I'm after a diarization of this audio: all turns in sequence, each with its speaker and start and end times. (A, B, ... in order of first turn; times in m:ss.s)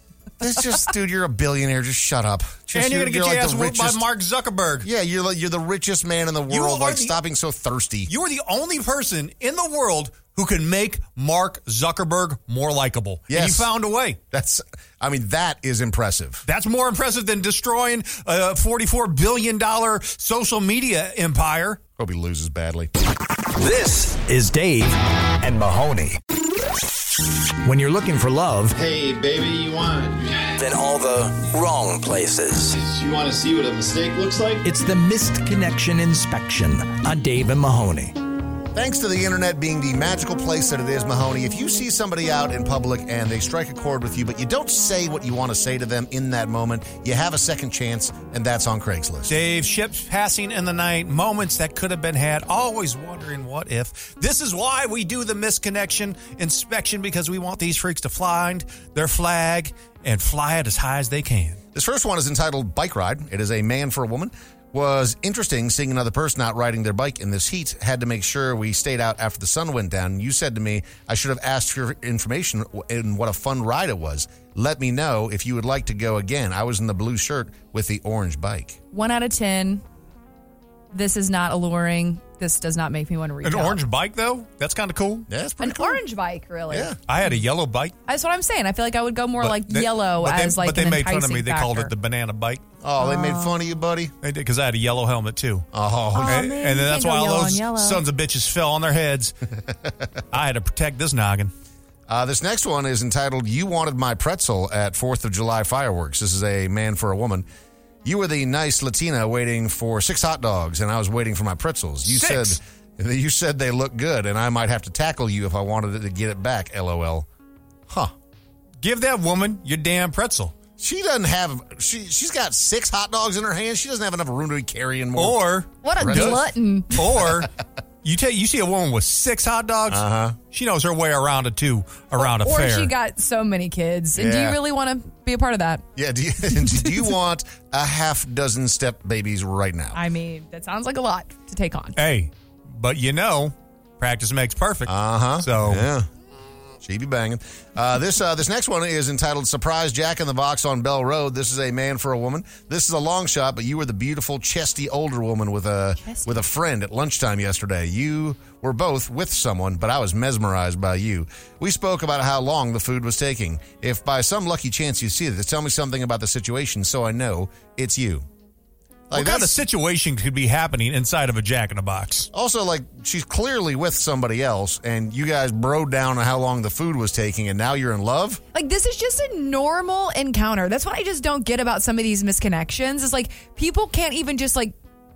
0:00.4-0:04.0 A
0:02.7-0:04.9 B
0:04.8-0:08.1 A
0:06.5-0:07.2 B
0:08.1-0:14.2 B
0:13.3-0:13.7 A
0:14.3-0:16.4 A
0:16.4-0:21.8 B
0:22.0-0:22.9 A
0:23.6-0:26.2 C
0:27.6-0:28.8 C
0:28.8-0:30.5 D
0:30.6-0:32.8 C
0:32.8-0:34.6 D
0:34.6-0:38.1 C
0:38.7-0:49.4 A
0:49.3-1:01.6 B
1:01.7-1:18.8 A
1:18.9-1:19.8 E
1:20.9-1:23.8 E
1:23.4-1:25.3 B
1:25.3-1:26.0 A
1:25.6-1:27.3 E
1:26.7-1:27.0 A
1:27.1-1:27.9 B
1:28.0-1:31.9 E
1:29.4-1:32.6 B
1:32.8-1:34.1 A
1:33.0-1:33.6 E
1:34.2-1:35.6 B
1:35.7-1:36.4 A
1:36.1-1:38.0 E
1:36.2-1:39.3 B
1:40.3-1:41.5 B
1:42.1-1:47.4 A
1:48.0-1:57.3 A
1:52.0-1:52.6 B
1:58.8-2:00.5 B
2:00.8-2:05.4 A
2:05.2-2:06.4 B
2:05.8-2:07.0 E
2:06.0-2:06.4 A
2:06.9-2:07.5 B
2:08.0-2:12.9 B
2:09.9-2:10.4 A
2:12.2-2:15.8 E
2:14.2-2:14.6 A
2:16.0-2:20.0 A
2:16.5-2:17.1 E
2:19.9-2:22.0 E
2:22.0-2:25.9 B
2:24.8-2:26.1 A
2:26.8-2:48.2 A
2:36.0-2:36.3 E
2:49.1-2:49.6 A
2:49.1-2:52.3 B
2:52.3-2:58.4 A
2:58.5-3:04.8 E